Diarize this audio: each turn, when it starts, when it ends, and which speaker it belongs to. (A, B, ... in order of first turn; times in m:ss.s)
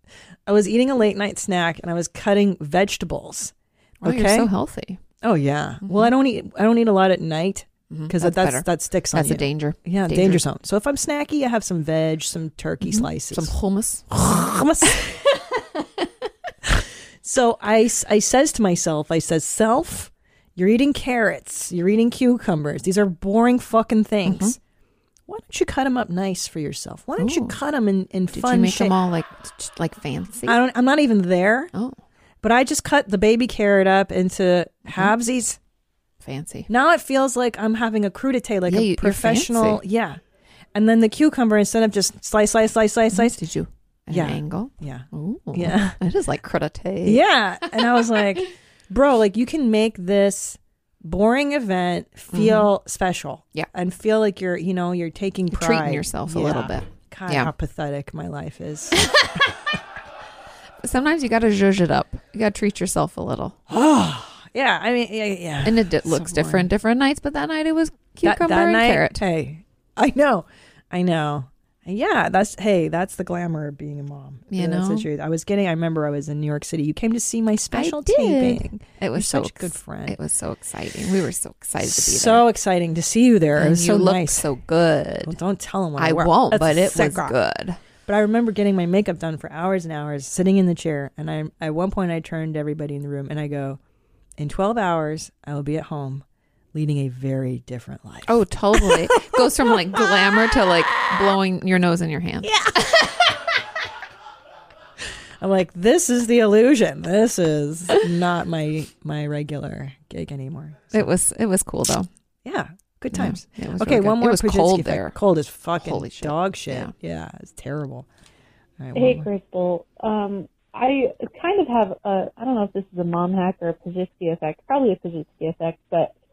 0:00.5-0:04.5 A
0:04.0-0:05.0 B
0:05.2-0:13.5 A
0:07.9-0:10.4 B
0:12.8-0:14.1 B
0:14.1-0:15.0 A
0:16.6-0:24.6 A
0:24.3-0:24.6 B
0:25.3-0:29.0 A
0:27.2-0:27.6 B
0:28.3-0:30.6 B
0:30.5-0:31.7 A
0:32.4-0:35.6 A
0:34.9-0:35.1 B
0:36.2-0:36.7 B
0:36.7-0:40.2 A
0:38.7-0:39.8 B
0:40.7-0:43.4 A
0:43.1-0:47.2 B
0:44.1-0:46.0 A
0:47.0-0:59.0 A
0:52.3-0:52.7 B
0:55.5-0:57.5 B
1:00.8-1:03.6 B
1:03.7-1:06.7 A
1:05.6-1:09.2 B
1:08.2-1:20.2 A
1:14.5-1:15.1 B
1:17.7-1:22.4 B
1:21.8-1:24.5 A
1:23.6-1:25.3 B
1:25.2-1:27.4 A
1:26.0-1:27.8 B
1:28.0-1:33.8 A
1:34.4-1:40.0 A
1:38.3-1:42.6 B
1:42.4-1:43.0 A
1:45.4-1:51.1 A
1:50.9-1:52.1 B
1:52.4-1:58.1 A
1:53.1-1:55.2 B
1:55.8-1:56.9 B
1:58.8-1:59.3 A
1:58.9-2:06.1 C